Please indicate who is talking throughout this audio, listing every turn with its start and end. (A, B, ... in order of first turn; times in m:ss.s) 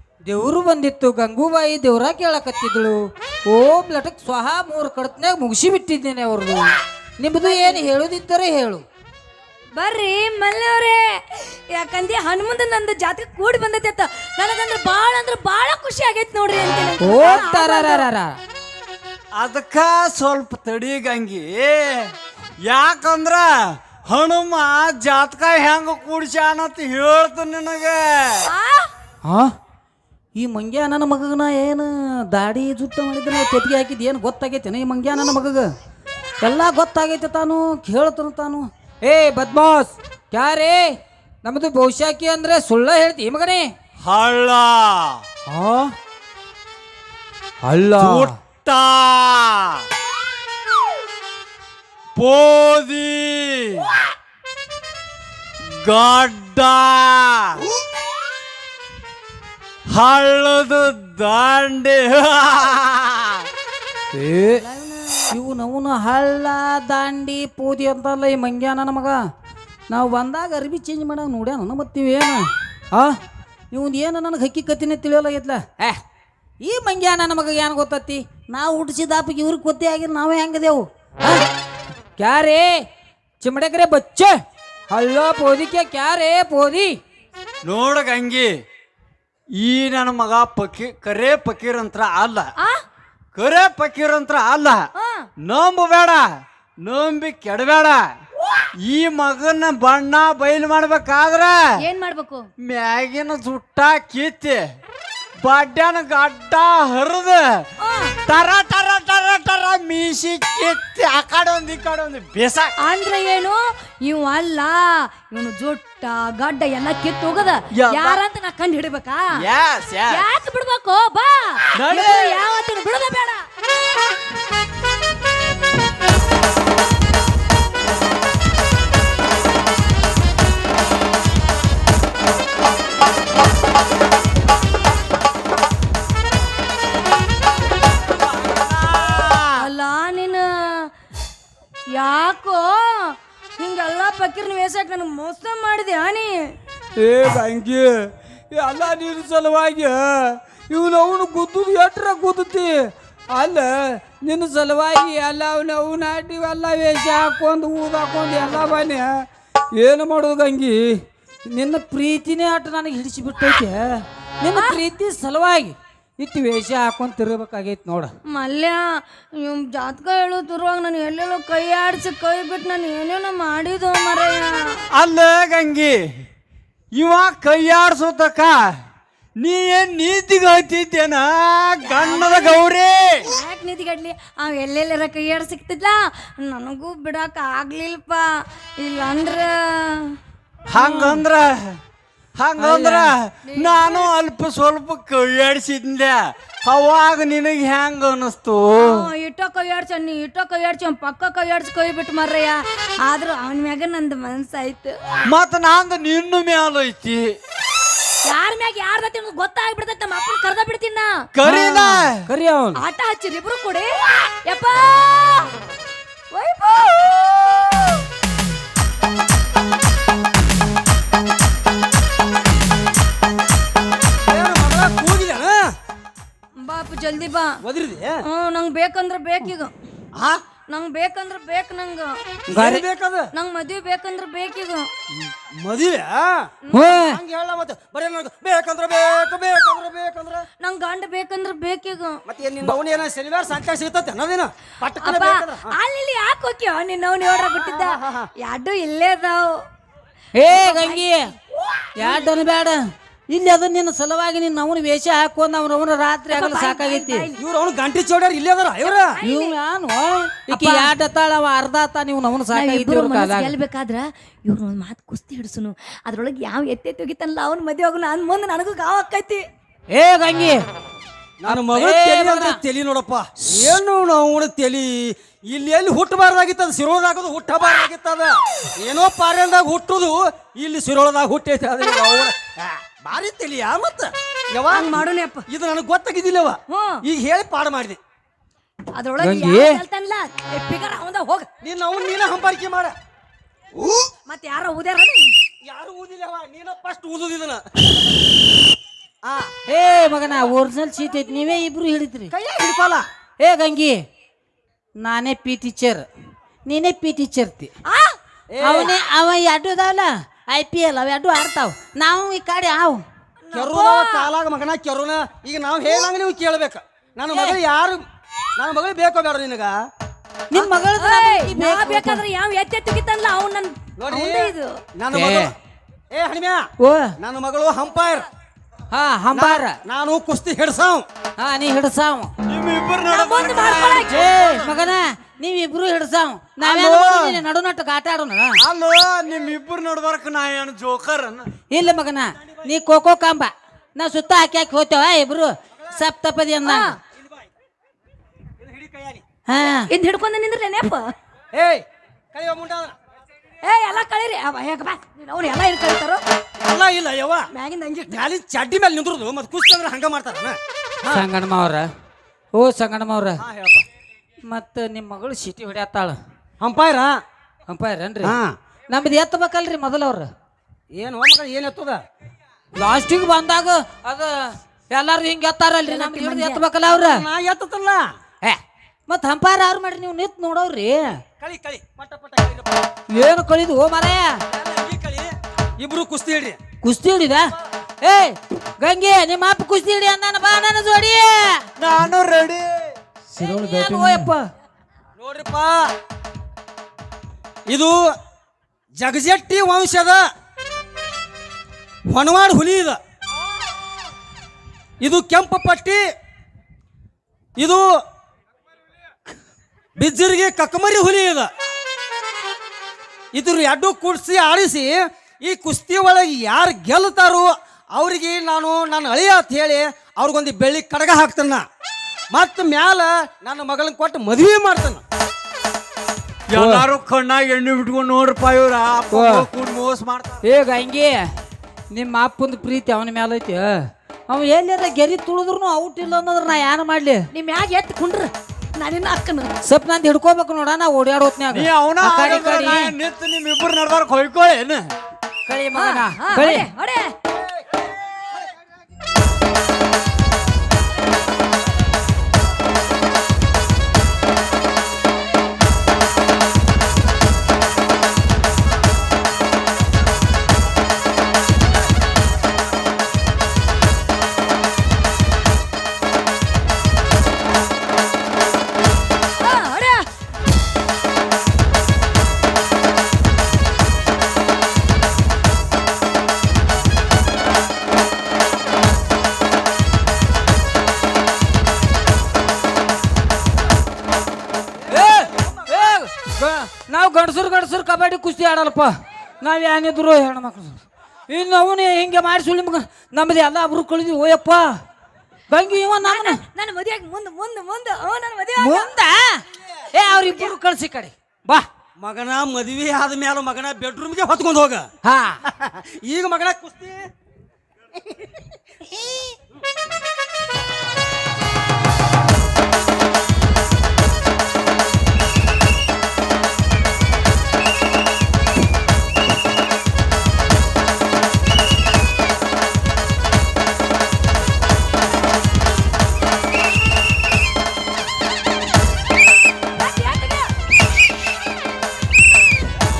0:00.2-0:08.8 A
0:07.4-0:07.8 B
0:09.8-0:18.0 B
0:17.0-0:18.4 A
0:19.3-0:28.5 C
0:28.4-0:28.9 B
0:29.2-0:29.5 A
0:30.3-0:35.7 A
0:36.4-0:40.9 A
0:41.4-0:43.7 A
0:44.0-0:45.2 C
0:45.5-0:45.9 A
0:47.6-0:48.3 A
0:48.0-0:49.8 C
0:52.2-0:53.9 C
0:55.6-0:57.6 C
0:59.9-1:03.5 C
1:04.1-1:04.6 A
1:04.6-1:05.4 B
1:05.3-1:09.2 A
1:09.9-1:13.2 A
1:13.7-1:16.0 A
1:16.6-1:21.4 A
1:22.2-1:22.8 A
1:23.4-1:24.4 A
1:24.9-1:27.0 A
1:27.6-1:28.5 C
1:29.6-1:32.5 C
1:33.3-1:34.8 C
1:35.0-1:35.2 B
1:35.4-1:36.3 C
1:36.8-1:38.0 C
1:38.8-1:41.6 C
1:41.8-1:42.5 B
1:42.6-1:44.6 C
1:45.4-1:47.6 C
1:47.8-1:48.1 B
1:48.2-1:52.7 C
1:52.8-1:59.2 B
1:57.7-1:58.2 C
1:59.4-2:00.2 C
2:00.1-2:03.4 B
2:01.7-2:02.4 C
2:18.0-2:19.7 C
2:19.6-2:20.9 B
2:21.9-2:26.3 B
2:27.0-2:48.1 A
2:48.2-2:54.8 B
2:54.9-2:56.2 C
2:56.9-2:58.7 C
2:59.4-3:03.2 C
3:01.9-3:02.6 B
3:03.2-3:08.3 B
3:08.8-3:10.0 B
3:10.7-3:11.8 C
3:10.7-3:11.2 A
3:12.4-3:19.1 C
3:12.6-3:13.1 A
3:13.4-3:14.1 B
3:18.8-3:25.0 B
3:25.2-3:27.3 C
3:28.2-3:31.1 B
3:31.3-3:32.2 C
3:31.4-3:32.8 A
3:32.8-3:35.5 B
3:36.3-3:38.0 B
3:44.2-3:45.7 D
3:46.6-3:47.6 B
3:47.6-3:48.2 D
3:48.2-3:49.7 B
3:50.2-3:50.4 D
3:50.7-3:52.2 B
3:52.5-3:53.3 D
3:52.5-3:52.8 A
3:53.3-3:54.9 B
3:55.2-4:00.4 D
3:56.7-3:57.2 A
4:00.6-4:02.2 B
4:02.3-4:05.8 D
4:05.0-4:09.6 B
4:07.6-4:08.3 D
4:10.3-4:11.3 A
4:10.5-4:11.0 B
4:11.8-4:12.2 B
4:12.0-4:17.3 A
4:16.3-4:17.4 B
4:17.4-4:19.1 D
4:18.8-4:19.5 B
4:19.2-4:23.5 A
4:20.5-4:20.9 B
4:22.5-4:29.4 B
4:29.9-4:30.6 A
4:31.4-4:48.0 D
4:31.5-4:32.6 A
4:44.7-4:45.4 B
4:46.7-4:47.0 B
4:48.9-4:51.5 B
4:49.2-4:49.8 A
4:51.6-4:53.0 D
4:54.3-4:55.3 B
4:55.6-4:57.7 D
4:59.2-4:59.5 D
4:59.6-5:02.3 A
5:02.3-5:03.1 D
5:03.4-5:04.0 A
5:05.0-5:06.1 A
5:06.6-5:07.7 A
5:07.8-5:08.2 B
5:08.5-5:08.9 D
5:08.6-5:13.0 A
5:13.4-5:14.3 B
5:13.5-5:18.0 D
5:17.3-5:17.6 A
5:18.6-5:19.8 D
5:20.5-5:22.2 A
5:20.6-5:24.7 B
5:24.0-5:25.5 D
5:25.1-5:25.5 A
5:26.1-5:26.7 D
5:26.8-5:27.1 A
5:27.2-5:28.3 D
5:28.9-5:29.8 A
5:29.3-5:31.0 D
5:31.4-5:32.3 A
5:32.4-5:34.8 C
5:33.1-5:34.3 B
5:34.1-5:38.6 A
5:36.6-5:37.4 C
5:38.6-5:41.5 C
5:41.7-5:46.9 A
5:46.6-5:47.0 B
5:48.6-5:49.2 D
5:49.5-5:49.9 A
5:49.9-5:51.1 B
5:51.5-5:53.0 D
5:53.6-5:56.2 B
5:56.6-5:57.5 D
5:57.5-5:58.2 B
5:58.1-6:01.2 D
6:01.1-6:01.9 A
6:02.5-6:03.4 A
6:03.4-6:03.8 D
6:04.4-6:06.2 A
6:06.6-6:07.1 D
6:07.7-6:08.4 A
6:08.2-6:08.6 D
6:08.9-6:10.3 A
6:10.9-6:12.0 D
6:12.8-6:17.2 A
6:15.8-6:16.6 B
6:16.8-6:18.1 D
6:18.4-6:21.2 A
6:21.4-6:22.9 D
6:23.1-6:24.4 A
6:24.5-6:26.6 D
6:26.8-6:31.6 A
6:31.8-6:32.9 C
6:33.4-6:34.5 A
6:35.2-6:35.9 D
6:37.7-6:38.1 D
6:39.0-6:40.2 D
6:42.1-6:43.0 D
6:45.0-6:46.0 D
6:47.6-6:47.8 D
6:50.0-6:51.5 D
6:53.3-7:01.6 D
7:02.3-7:05.0 D
7:06.5-7:10.4 C
7:06.5-7:06.8 A
7:09.1-7:09.4 A
7:10.4-7:11.2 A
7:11.9-7:17.2 A
7:17.3-7:19.5 B
7:19.6-7:22.9 A
7:21.5-7:24.9 C
7:25.4-7:26.6 A
7:25.7-7:27.1 B
7:49.4-7:50.1 B
8:04.9-8:14.7 A
8:04.9-8:05.9 D
8:15.5-8:16.4 A
8:16.0-8:18.9 B
8:18.6-8:21.6 A
8:20.0-8:20.5 B
8:22.0-8:24.9 D
8:25.0-8:25.4 A
8:25.5-8:27.1 D
8:49.8-8:50.5 B